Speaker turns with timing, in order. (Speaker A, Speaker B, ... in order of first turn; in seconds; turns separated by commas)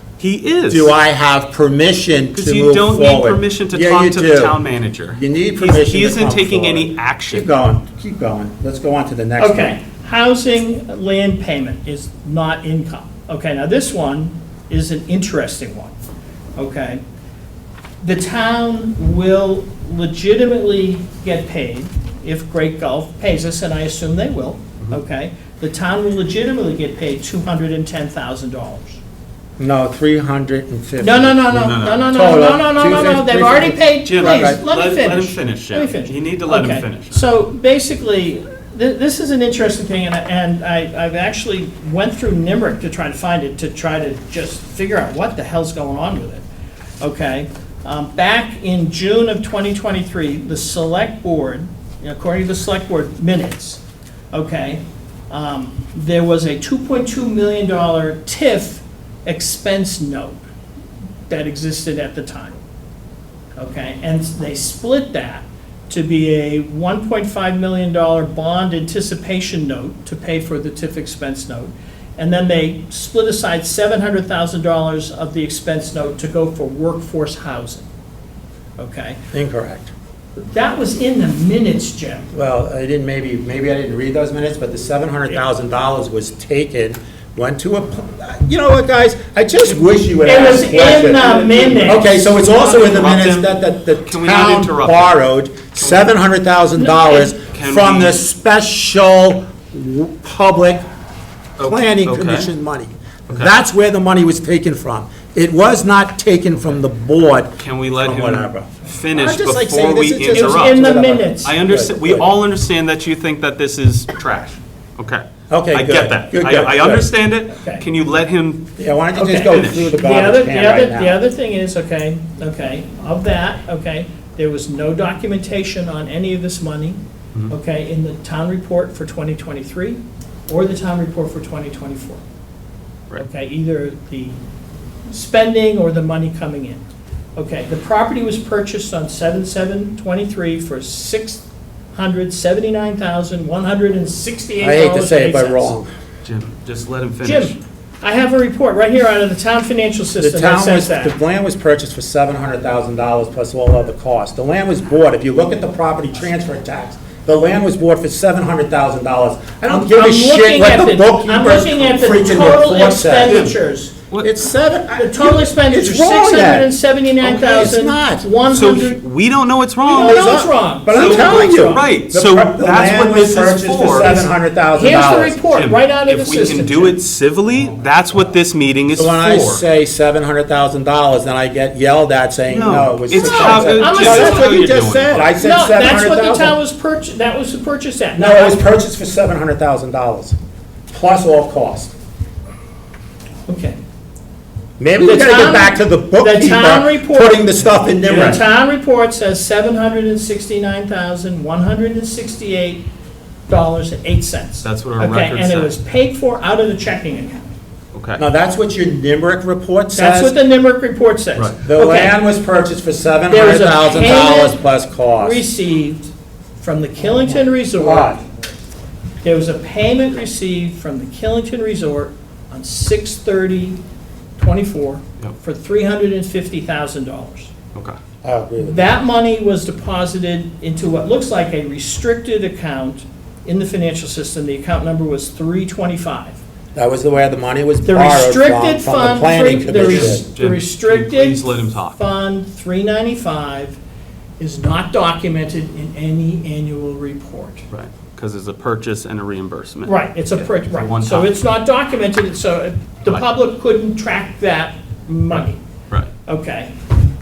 Speaker A: 0.2-0.9, Speaker B: 0.7-4.6, Speaker A: 2.3-7.5, Speaker B: 5.1-9.8, Speaker C: 9.4-15.9, Speaker C: 16.6-17.0, Speaker C: 18.0-29.0, Speaker B: 29.6-34.6, Speaker C: 31.0-46.4, Speaker A: 31.5-32.1, Speaker A: 34.0-37.2, Speaker C: 47.0-53.8, Speaker C: 54.3-60.4, Speaker C: 61.3-62.6, Speaker C: 63.6-77.9, Speaker C: 78.8-79.2, Speaker B: 79.3-79.9, Speaker C: 80.4-82.3, Speaker B: 82.3-100.8, Speaker C: 90.2-92.1, Speaker A: 90.6-95.2, Speaker A: 95.8-96.1, Speaker C: 96.8-97.3, Speaker A: 97.5-98.2, Speaker A: 101.6-102.5, Speaker B: 101.6-112.2, Speaker A: 107.6-118.7, Speaker C: 110.3-111.6, Speaker B: 115.5-117.1, Speaker B: 118.8-121.2, Speaker C: 119.1-132.2, Speaker A: 119.4-119.9, Speaker C: 133.2-134.4, Speaker C: 135.1-136.8, Speaker C: 137.3-145.8, Speaker B: 144.6-145.9, Speaker A: 146.2-147.6, Speaker C: 147.2-151.2, Speaker B: 150.2-163.4, Speaker C: 159.7-163.9, Speaker A: 163.2-163.5, Speaker B: 164.2-168.7, Speaker C: 164.9-169.0, Speaker A: 168.5-170.2, Speaker C: 169.8-171.9, Speaker B: 169.9-175.4, Speaker A: 170.9-174.3, Speaker C: 174.7-177.0, Speaker A: 175.5-179.6, Speaker B: 178.9-186.6, Speaker A: 182.5-185.3, Speaker C: 183.1-188.6, Speaker B: 188.1-190.4, Speaker B: 190.9-191.9, Speaker C: 193.5-193.8, Speaker B: 194.8-198.4, Speaker C: 195.0-197.5, Speaker C: 198.0-202.8, Speaker C: 203.5-207.5, Speaker A: 204.6-205.7, Speaker A: 207.9-208.2, Speaker B: 208.2-210.4, Speaker C: 209.9-212.2, Speaker B: 211.6-215.4, Speaker C: 213.3-214.6, Speaker C: 215.2-218.2, Speaker B: 217.8-218.2, Speaker C: 219.2-223.8, Speaker C: 224.4-227.5, Speaker B: 228.2-228.9, Speaker C: 228.6-236.4, Speaker B: 236.7-240.2, Speaker C: 237.8-243.8, Speaker A: 239.7-242.0, Speaker C: 244.4-247.6, Speaker A: 247.7-251.3, Speaker C: 249.8-255.6, Speaker C: 256.2-256.7